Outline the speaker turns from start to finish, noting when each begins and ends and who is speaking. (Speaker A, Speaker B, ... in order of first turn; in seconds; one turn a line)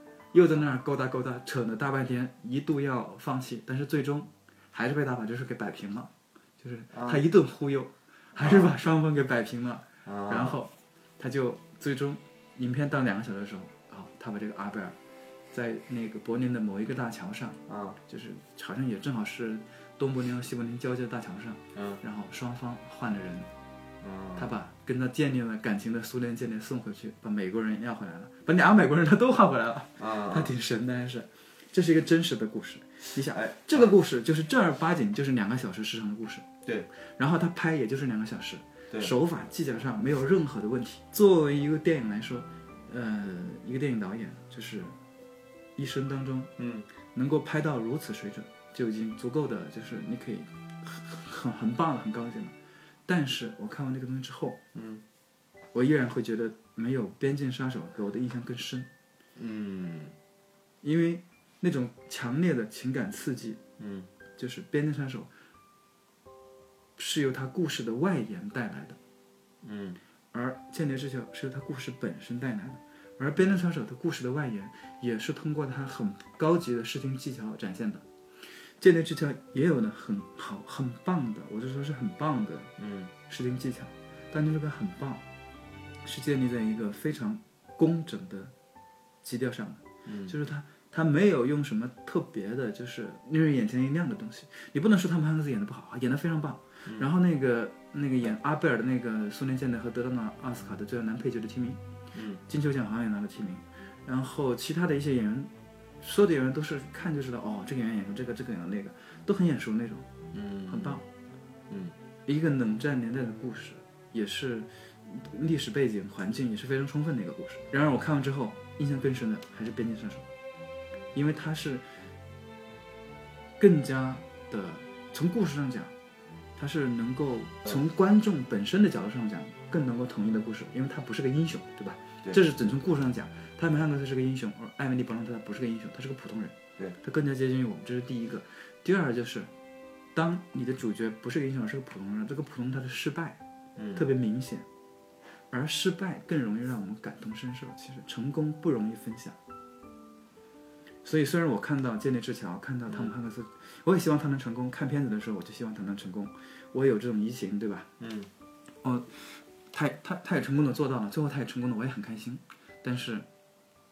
Speaker A: 0.3-15.0
Speaker B: 6.9-7.2
Speaker B: 8.4-8.7
Speaker B: 10.1-10.6
Speaker A: 15.5-23.5
Speaker B: 17.7-18.0
Speaker B: 21.8-22.0
Speaker B: 24.0-24.5
Speaker A: 24.4-36.5
Speaker B: 30.0-30.5
Speaker B: 33.3-34.0
Speaker A: 37.2-45.0
Speaker A: 45.8-46.5
Speaker B: 46.6-46.9
Speaker A: 47.1-52.5
Speaker A: 53.1-54.6
Speaker B: 54.7-55.0
Speaker A: 55.7-58.9
Speaker B: 59.4-60.1
Speaker A: 60.8-63.6
Speaker B: 63.8-64.1
Speaker A: 64.4-65.3
Speaker A: 67.0-69.0
Speaker B: 69.6-70.0
Speaker A: 70.3-78.0
Speaker A: 78.8-82.7
Speaker B: 82.8-83.1
Speaker A: 83.3-85.2
Speaker A: 86.0-88.5
Speaker A: 89.2-101.8
Speaker B: 90.0-90.3
Speaker B: 102.1-102.4
Speaker A: 102.5-110.1
Speaker B: 110.3-111.0
Speaker A: 110.7-111.0
Speaker B: 111.7-112.0
Speaker A: 112.3-120.3
Speaker A: 121.1-121.8
Speaker A: 123.6-125.9
Speaker A: 126.6-139.5
Speaker A: 140.2-143.4
Speaker B: 143.8-144.0
Speaker A: 143.9-144.7
Speaker A: 145.5-149.4
Speaker A: 151.0-157.9
Speaker B: 152.9-153.1
Speaker B: 158.0-158.3
Speaker A: 158.8-159.1
Speaker A: 159.7-163.3